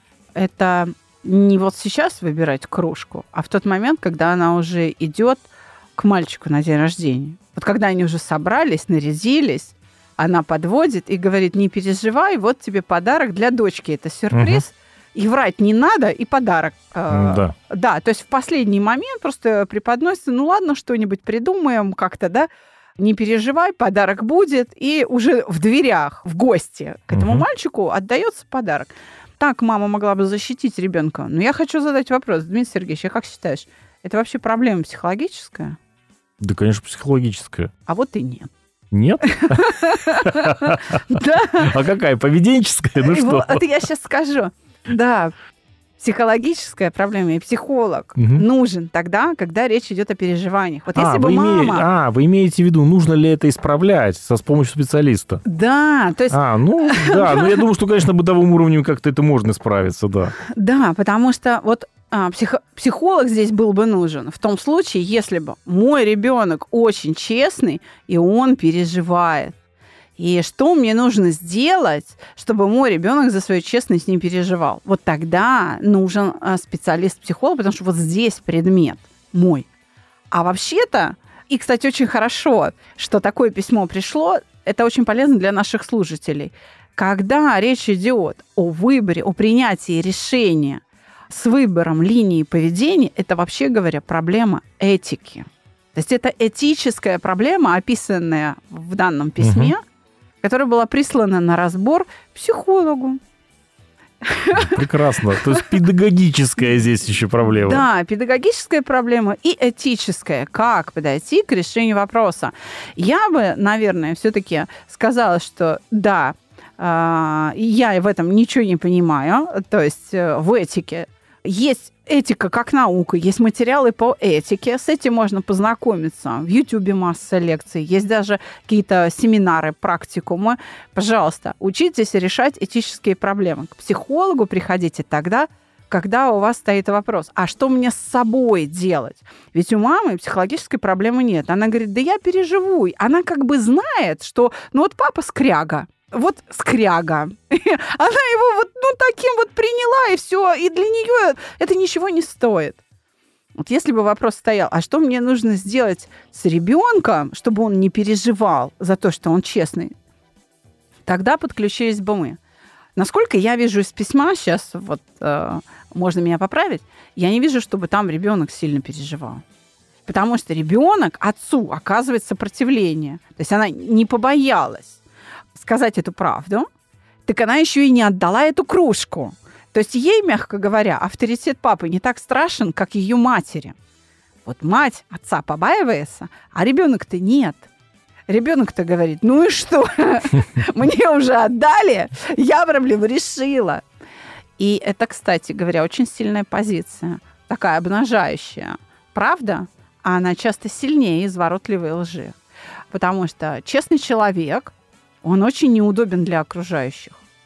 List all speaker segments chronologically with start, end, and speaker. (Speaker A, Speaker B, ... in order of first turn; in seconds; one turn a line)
Speaker A: 0.3-35.8
Speaker B: 14.3-14.6
Speaker B: 17.1-17.5
Speaker B: 27.1-27.4
Speaker B: 36.4-37.7
Speaker A: 37.9-38.5
Speaker B: 38.9-41.0
Speaker A: 39.2-41.7
Speaker B: 41.5-43.6
Speaker A: 43.0-45.3
Speaker A: 46.0-51.9
Speaker B: 48.2-48.5
Speaker B: 51.0-55.4
Speaker A: 55.5-57.6
Speaker B: 56.3-60.4
Speaker A: 60.4-69.5
Speaker A: 70.2-79.7
Speaker A: 80.3-99.8
Speaker B: 99.4-99.7
Speaker A: 100.4-103.2
Speaker A: 104.2-105.7
Speaker B: 104.5-107.8
Speaker A: 107.5-152.8
Speaker A: 153.6-159.9
Speaker A: 161.1-162.4
Speaker A: 163.0-169.4
Speaker A: 170.1-175.0
Speaker A: 175.5-176.7
Speaker A: 177.3-183.8
Speaker A: 184.4-187.7
Speaker A: 188.3-193.8
Speaker A: 194.6-202.4
Speaker A: 202.9-207.2